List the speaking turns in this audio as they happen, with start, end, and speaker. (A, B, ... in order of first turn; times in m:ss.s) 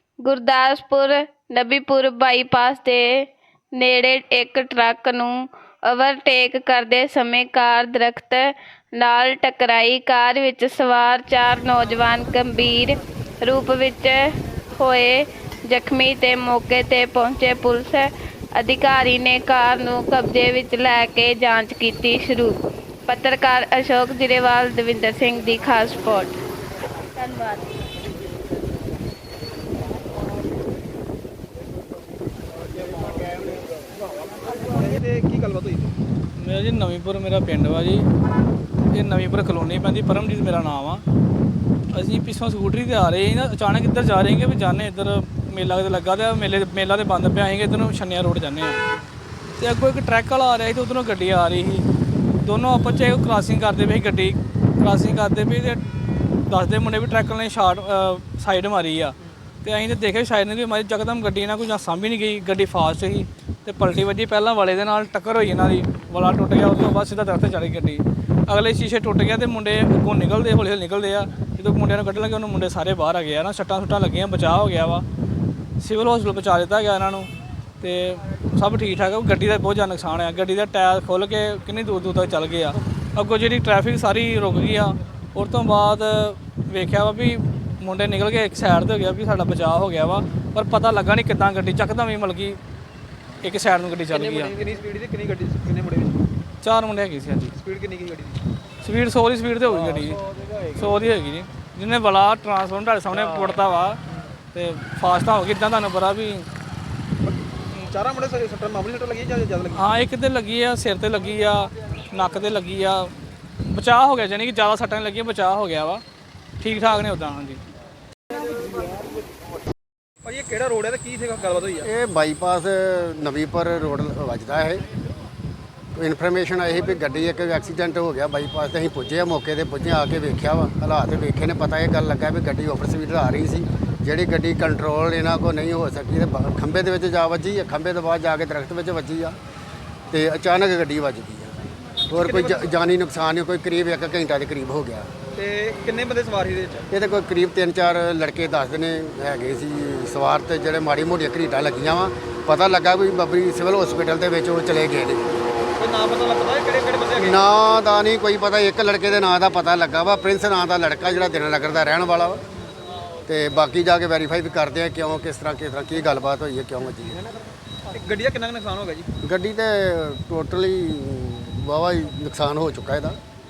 0:00.2-0:26.4 A
0:27.2-0:27.8 A
0:34.7-0:36.0 B
0:36.4-0:38.1 C
0:38.9-0:41.0 C
0:41.9-0:48.8 C
0:49.6-0:51.9 C
0:52.4-0:55.8 C
0:56.5-1:15.0 C
1:15.8-1:17.3 C
1:17.8-1:32.6 C
1:33.4-1:34.6 C
1:34.1-1:36.2 B
1:36.6-1:37.5 C
1:37.5-1:38.4 B
1:38.8-1:44.0 C
1:44.5-1:46.5 C
1:47.2-1:49.9 B
1:49.7-1:53.1 C
1:53.7-1:56.0 C
1:56.6-1:57.6 C
2:00.2-2:01.9 B
2:01.8-2:04.8 D
2:06.0-2:19.4 D
2:20.1-2:21.6 D
2:22.1-2:25.1 D
2:22.2-2:22.7 B
2:25.4-2:26.9 B
2:26.9-2:35.4 D
2:35.8-2:37.4 B
2:37.2-2:42.4 D
2:43.3-2:47.2 D
2:47.9-2:49.1 B
2:49.2-2:53.2 D